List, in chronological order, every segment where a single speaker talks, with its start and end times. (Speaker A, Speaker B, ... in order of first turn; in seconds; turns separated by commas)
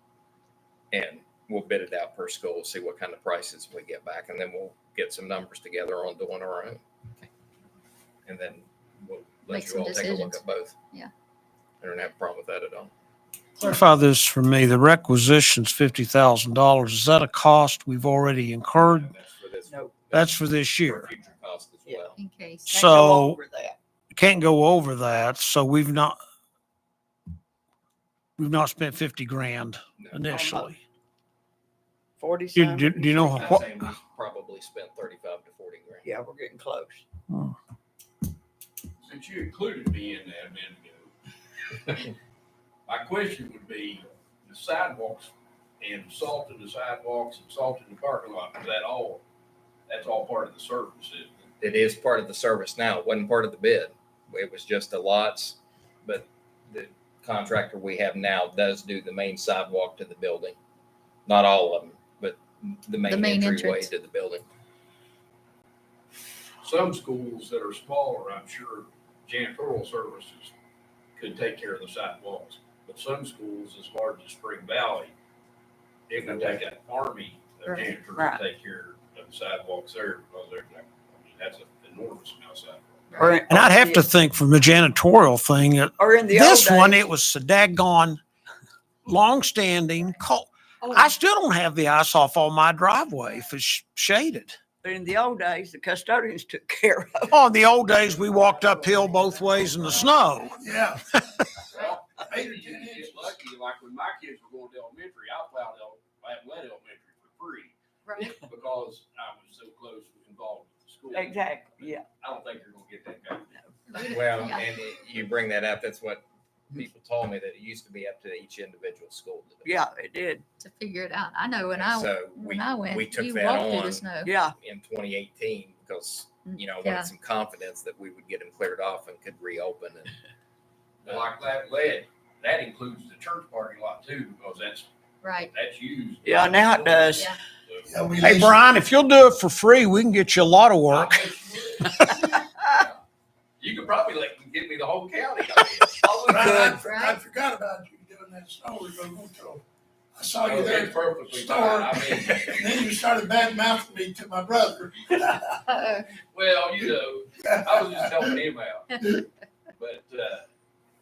Speaker A: 0.9-6.8, Speaker A: 8.3-10.8, Speaker B: 9.5-11.1, Speaker A: 11.8-12.9, Speaker C: 13.6-19.1, Speaker A: 18.8-22.2, Speaker D: 19.7-20.0, Speaker C: 20.1-21.1, Speaker B: 22.2-22.9, Speaker C: 22.6-23.4, Speaker D: 22.7-23.8, Speaker C: 24.1-26.2, Speaker C: 28.4-30.8, Speaker D: 30.3-30.7, Speaker D: 32.2-33.6, Speaker C: 32.5-33.8, Speaker A: 33.4-36.1, Speaker D: 36.0-37.0, Speaker C: 37.3-37.5, Speaker E: 39.0-41.1, Speaker E: 41.8-42.1, Speaker E: 42.9-49.2, Speaker E: 49.9-51.5, Speaker A: 51.6-60.6, Speaker A: 61.3-64.5, Speaker B: 63.0-63.9, Speaker E: 66.6-70.5, Speaker E: 71.2-75.1, Speaker E: 76.1-83.4, Speaker D: 78.2-78.4, Speaker B: 83.1-83.4, Speaker D: 83.2-84.0, Speaker C: 83.5-88.2, Speaker D: 86.0-87.0, Speaker C: 89.1-94.6, Speaker B: 90.8-91.1, Speaker D: 94.8-97.4, Speaker C: 97.3-100.6, Speaker E: 98.7-99.2, Speaker F: 100.5-101.1, Speaker E: 101.7-113.6, Speaker F: 101.7-103.4, Speaker B: 108.1-108.3, Speaker D: 111.1-112.0, Speaker B: 113.9-114.6, Speaker A: 114.0-119.8, Speaker D: 119.7-120.5, Speaker B: 120.6-124.4, Speaker A: 121.8-124.0, Speaker D: 124.2-124.5, Speaker A: 124.6-130.1, Speaker B: 126.8-127.1, Speaker E: 131.0-134.9, Speaker B: 135.2-135.5, Speaker E: 135.4-137.9, Speaker D: 136.2-137.3, Speaker F: 137.9-138.6, Speaker C: 138.2-141.3, Speaker E: 140.9-143.0, Speaker D: 142.0-142.8, Speaker E: 143.6-146.6, Speaker F: 146.3-149.6, Speaker D: 146.3-146.8, Speaker B: 146.8-147.2, Speaker F: 150.2-155.6, Speaker E: 150.4-152.8, Speaker B: 155.7-156.1, Speaker E: 156.2-159.1, Speaker F: 157.4-158.4, Speaker E: 159.7-160.4